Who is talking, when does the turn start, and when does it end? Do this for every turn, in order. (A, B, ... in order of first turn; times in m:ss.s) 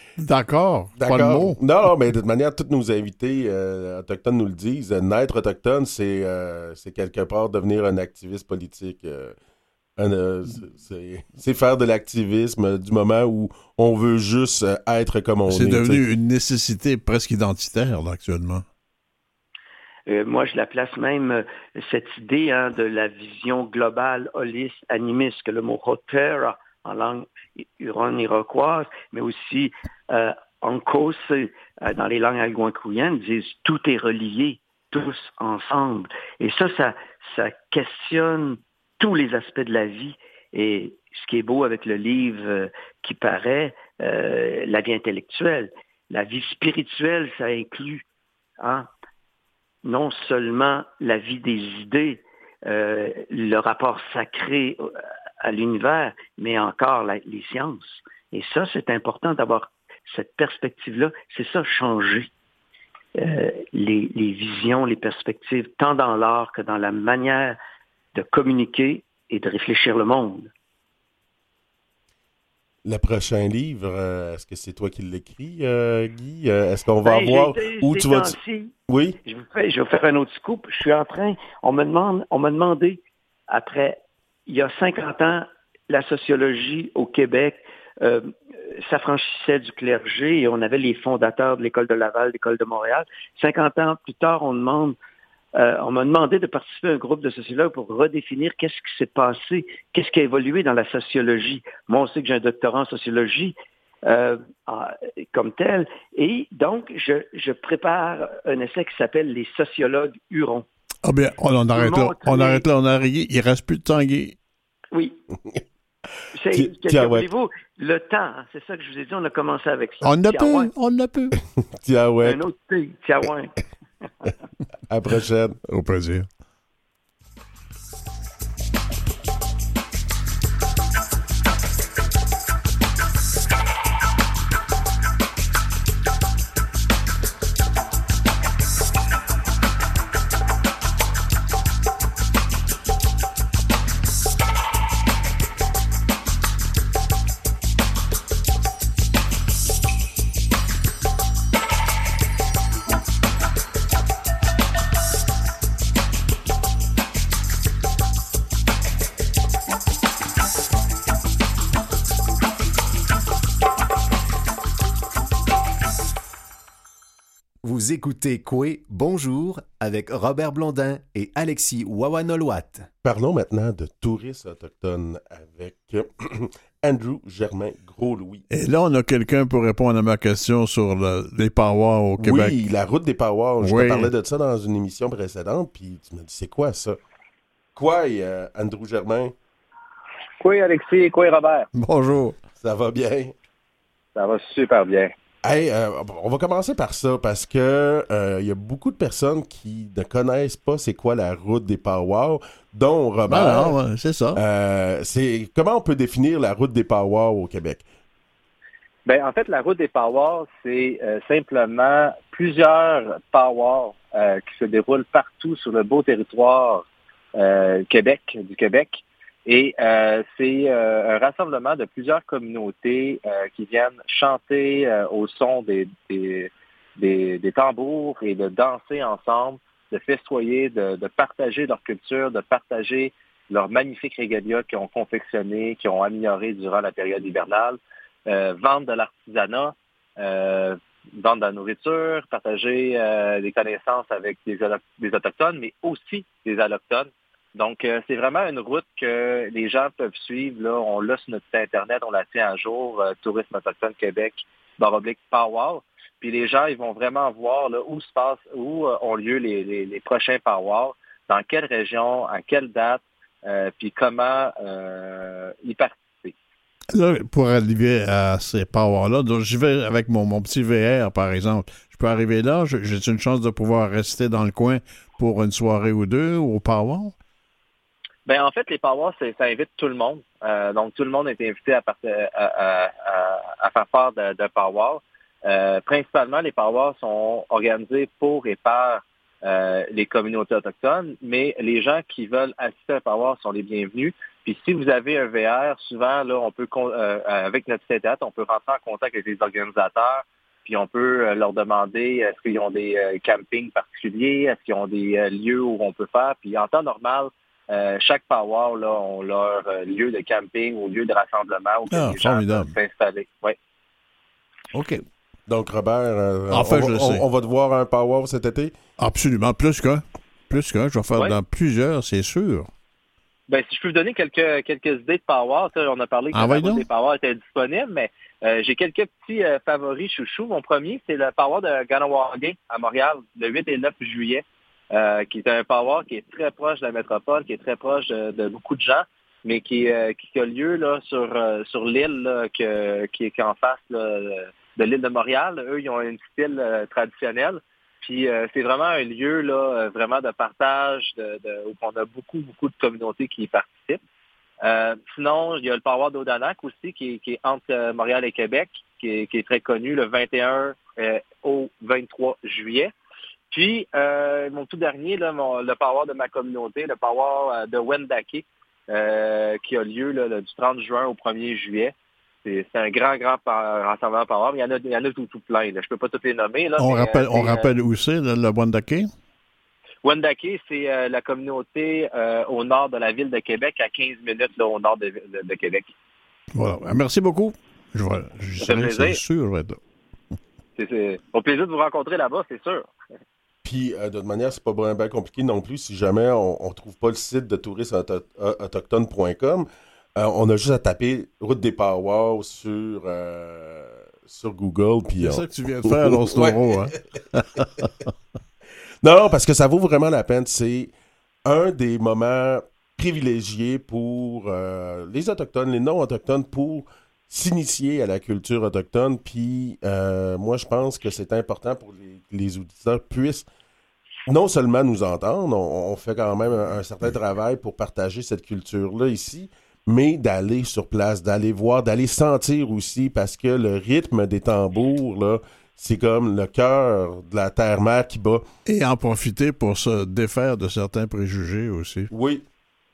0:00.2-0:01.6 A
0:01.0-0:09.4 B
0:10.0-0:16.0 B
0:15.5-0:18.6 A
0:20.1-0:48.0 C
0:48.6-0:48.9 C
0:49.8-0:54.9 C
0:55.4-1:02.3 C
1:03.2-1:07.6 C
1:08.1-1:10.5 C
1:12.8-1:18.4 B
1:17.0-1:18.7 C
1:18.9-1:19.2 B
1:19.2-1:35.0 C
1:35.5-1:43.5 C
1:44.0-1:50.6 C
1:51.0-1:54.4 A
1:51.7-1:52.6 C
1:54.9-1:55.2 C
1:56.3-2:00.7 C
1:56.5-1:57.3 B
2:00.0-2:01.4 A
2:01.8-2:02.4 B
2:02.2-2:03.5 C
2:04.9-2:05.6 B
2:05.7-2:06.3 A
2:47.6-2:52.9 D
2:53.0-2:58.4 B
2:58.5-3:02.6 A
3:02.2-3:07.0 B
3:03.6-3:04.1 A
3:07.7-3:09.3 B
3:10.4-3:11.7 E
3:11.7-3:12.4 A
3:12.6-3:13.3 B
3:14.1-3:15.1 E
3:15.4-3:23.7 B
3:23.3-3:24.4 A
3:24.4-3:27.8 B
3:29.0-4:26.3 E
4:26.9-4:37.1 A
4:38.2-5:13.6 E
5:11.9-5:12.7 A
5:14.7-5:15.0 A
5:15.5-5:18.7 B
5:16.5-5:17.2 A
5:19.0-5:22.7 A
5:23.5-5:54.0 E
5:26.3-5:26.8 A
5:54.6-6:02.9 E
6:03.5-6:11.9 E
6:12.4-6:17.7 E
6:16.8-6:19.1 A
6:20.0-6:25.9 E
6:26.6-6:29.8 A
6:28.6-6:29.2 E
6:30.8-6:32.9 E
6:33.6-6:46.9 B
6:45.2-6:47.6 A
6:49.0-6:50.9 B
6:51.4-7:03.5 B
7:04.3-7:18.4 B
7:18.6-7:22.1 A
7:22.1-7:22.4 B